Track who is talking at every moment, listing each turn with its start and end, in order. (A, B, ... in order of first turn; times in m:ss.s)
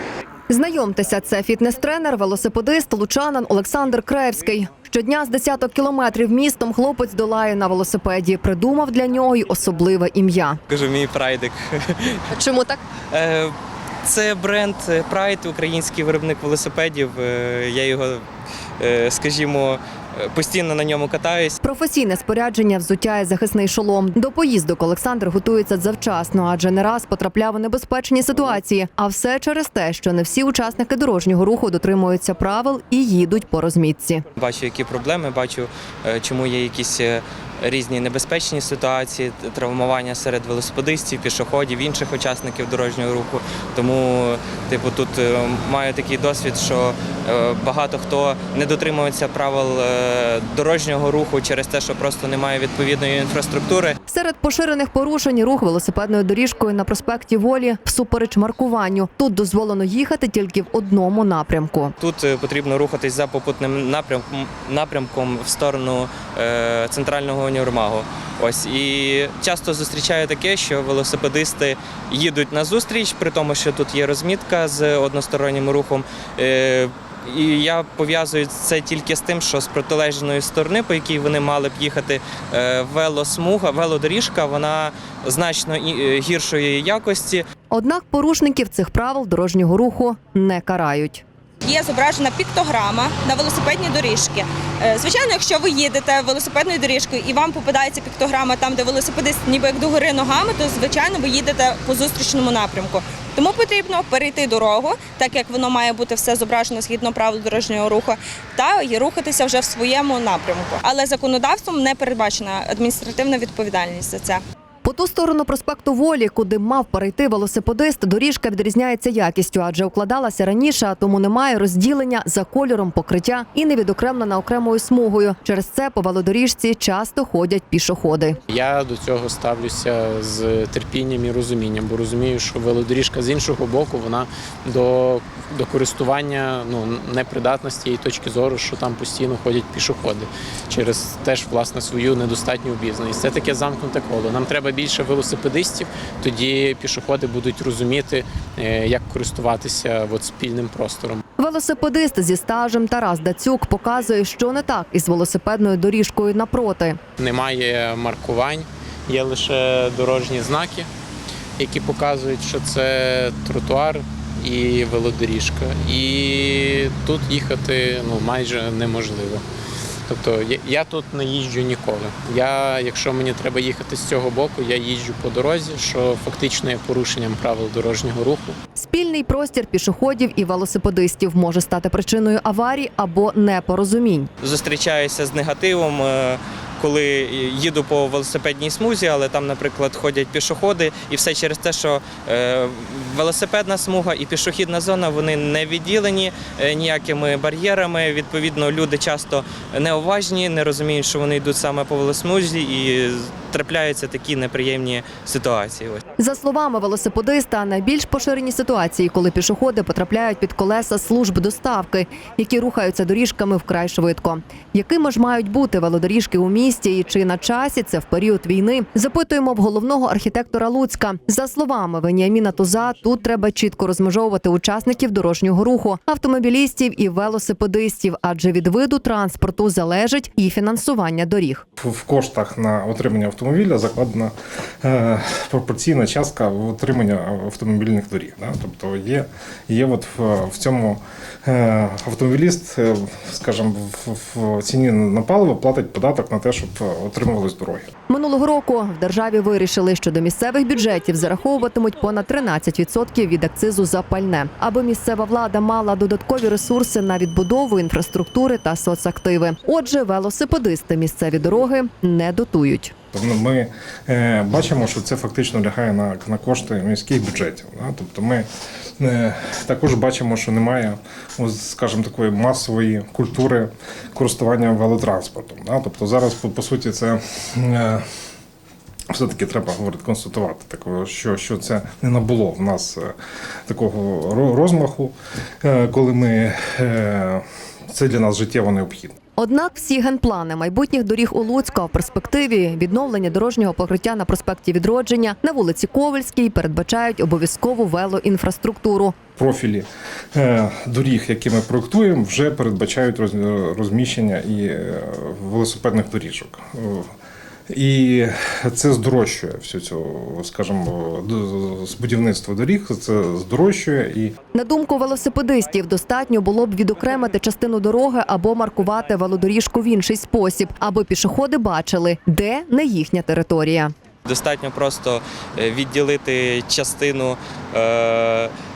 0:00.5-0:10.6 A
0:10.7-0:12.3 B
0:12.3-0:12.8 A
0:13.1-0:18.2 B
0:18.8-0:21.6 B
0:21.6-0:34.2 A
0:34.4-0:54.0 B
0:54.1-1:01.9 A
1:02.0-1:27.4 B
1:27.7-1:31.2 A
1:31.6-1:54.4 C
1:54.8-2:08.4 A
2:08.5-2:31.2 D
2:31.4-2:37.0 A
2:37.2-2:40.9 D
2:41.6-2:49.4 D
2:50.1-2:58.6 D
2:58.8-3:04.3 A
3:04.4-3:26.0 B
3:26.2-3:51.6 A
3:51.8-4:07.9 E
4:08.1-4:22.9 A
4:23.1-4:28.5 E
4:29.0-4:38.0 E
4:39.1-4:43.1 E
4:43.7-4:49.1 E
4:49.4-4:59.2 A
4:59.4-5:07.1 E
5:07.7-5:14.3 E
5:14.5-5:23.9 A
5:24.2-5:28.5 B